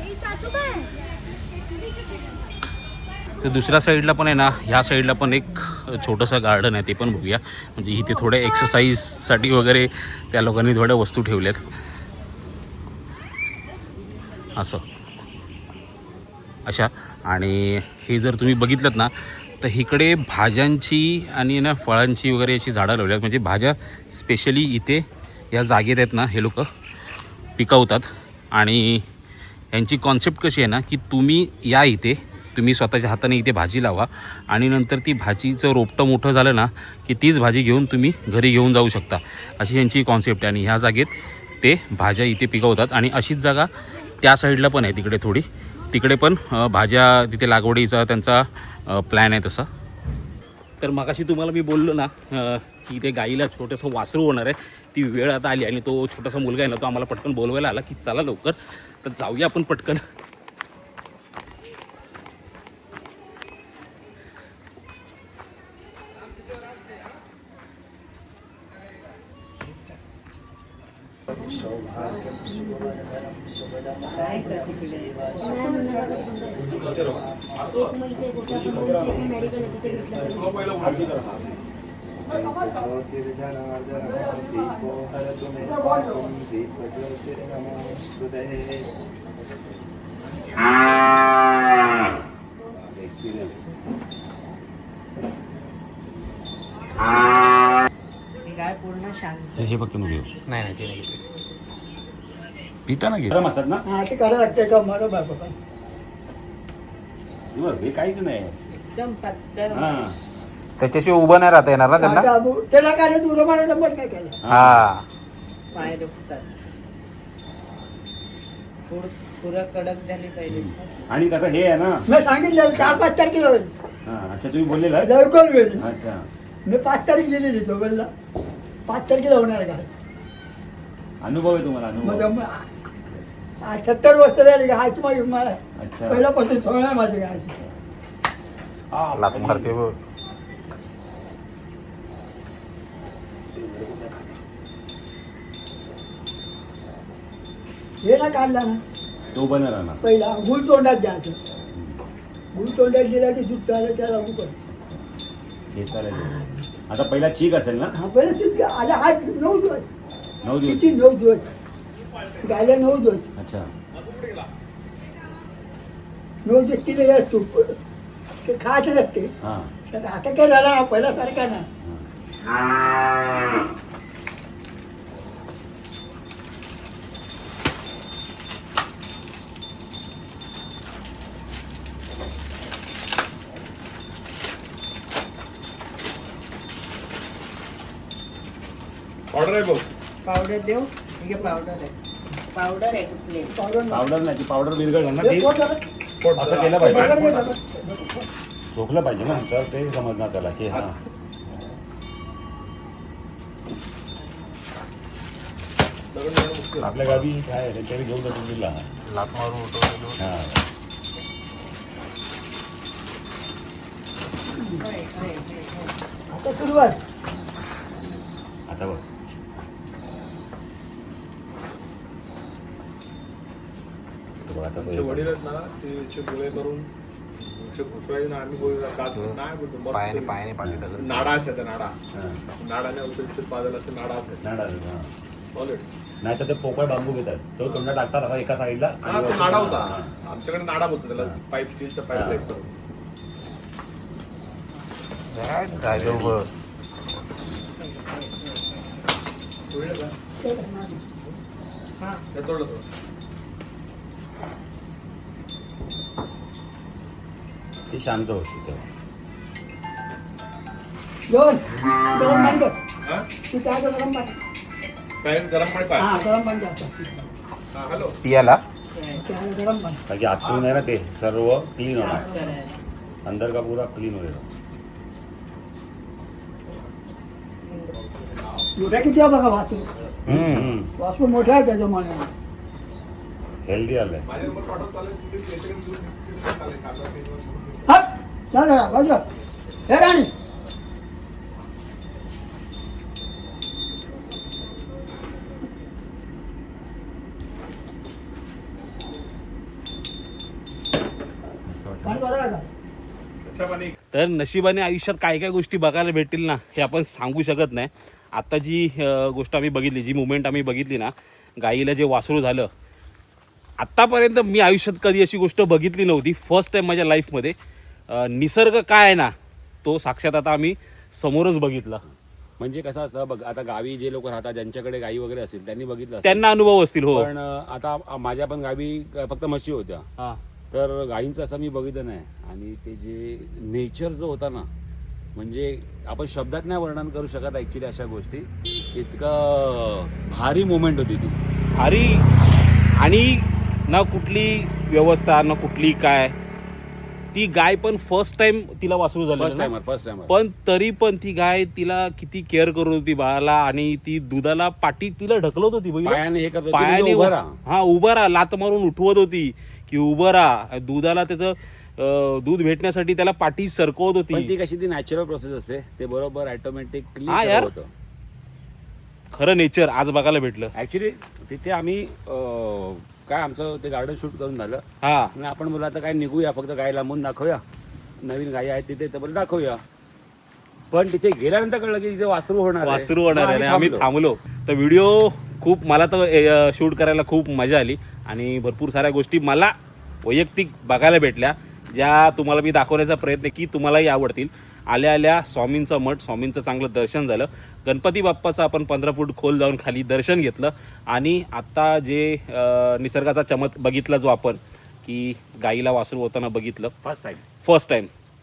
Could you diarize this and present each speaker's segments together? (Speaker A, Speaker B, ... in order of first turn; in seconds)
Speaker A: 3.4-11.6, 14.6-14.8, 16.7-26.7, 27.6-29.1, 29.7-41.1, 41.6-43.7, 44.2-49.7, 50.8-60.0, 100.5-101.2, 110.8-112.3, 114.5-115.0, 139.1-140.0, 206.9-207.2, 209.1-210.2, 229.1-229.4, 229.9-231.4, 245.3-246.5, 268.2-268.6, 280.3-280.8, 304.1-312.7, 313.8-317.6, 318.1-319.3, 319.8-322.0, 326.2-327.3, 341.8-342.2, 343.0-346.3, 347.3-349.7, 350.3-356.2, 356.7-364.5, 367.3-367.7, 369.4-370.7, 375.0-375.4, 382.8-389.7, 390.2-406.9, 407.6-408.1
Speaker B: 71.6-72.1, 76.5-77.3, 78.2-81.6, 92.8-93.7, 99.5-100.3, 102.9-103.8, 107.5-108.6, 109.7-110.2, 114.4-114.9, 120.5-122.0, 124.1-125.2, 125.8-126.3, 131.2-132.3, 135.8-136.3, 138.9-139.8, 143.5-144.2, 149.3-150.0, 151.7-152.0, 154.7-155.1, 155.7-157.9, 160.4-161.0, 163.4-163.7, 169.4-169.7, 171.8-172.1, 193.9-195.5, 196.3-197.5, 198.7-201.0, 206.8-208.9, 210.2-210.6, 218.7-219.1, 224.4-225.3, 230.6-230.9, 232.1-232.4, 234.4-235.1, 236.2-240.1, 242.1-242.5, 245.7-246.5, 257.9-258.9, 270.1-272.3, 273.2-274.5, 280.3-280.9, 283.7-284.3, 301.6-302.2, 322.6-326.4, 327.1-330.1, 330.7-334.7, 335.4-341.4, 349.4-350.3, 356.0-357.5, 364.3-367.9, 370.8-374.8, 375.4-377.6, 378.2-379.8, 380.9-384.1, 407.0-407.4
Speaker C: 74.1-75.8, 98.4-99.7, 108.7-110.1, 115.7-116.5, 118.9-121.0, 190.2-193.6, 214.7-215.9, 247.8-248.9, 268.9-269.2, 271.9-272.8
Speaker D: 75.5-76.4, 82.3-82.9, 83.9-86.4, 103.9-105.5, 112.0-114.4, 122.1-123.7, 125.0-125.8, 126.7-128.1, 128.9-129.9, 132.0-132.6, 133.6-137.6, 148.0-148.8, 150.0-151.4, 152.5-154.6, 157.9-159.9, 160.6-161.5, 162.4-163.3, 166.5-167.8, 168.4-169.3, 169.9-171.7, 193.5-194.1, 195.2-195.8, 196.8-198.3, 216.3-217.0, 250.4-251.0, 261.3-262.8, 263.5-264.4, 266.0-267.3, 269.2-270.0, 278.8-279.9, 281.0-282.3, 287.9-289.2, 289.9-290.3, 302.1-302.7
Speaker E: 76.6-78.2, 80.2-81.4, 163.9-164.5, 189.3-189.9, 196.2-197.3, 206.1-206.9, 224.6-230.4, 231.0-231.9, 232.6-234.4, 235.6-235.9, 239.1-242.7, 249.7-250.1, 252.3-252.8, 265.2-266.3, 267.8-268.1, 278.0-278.7, 284.3-287.9, 303.4-303.9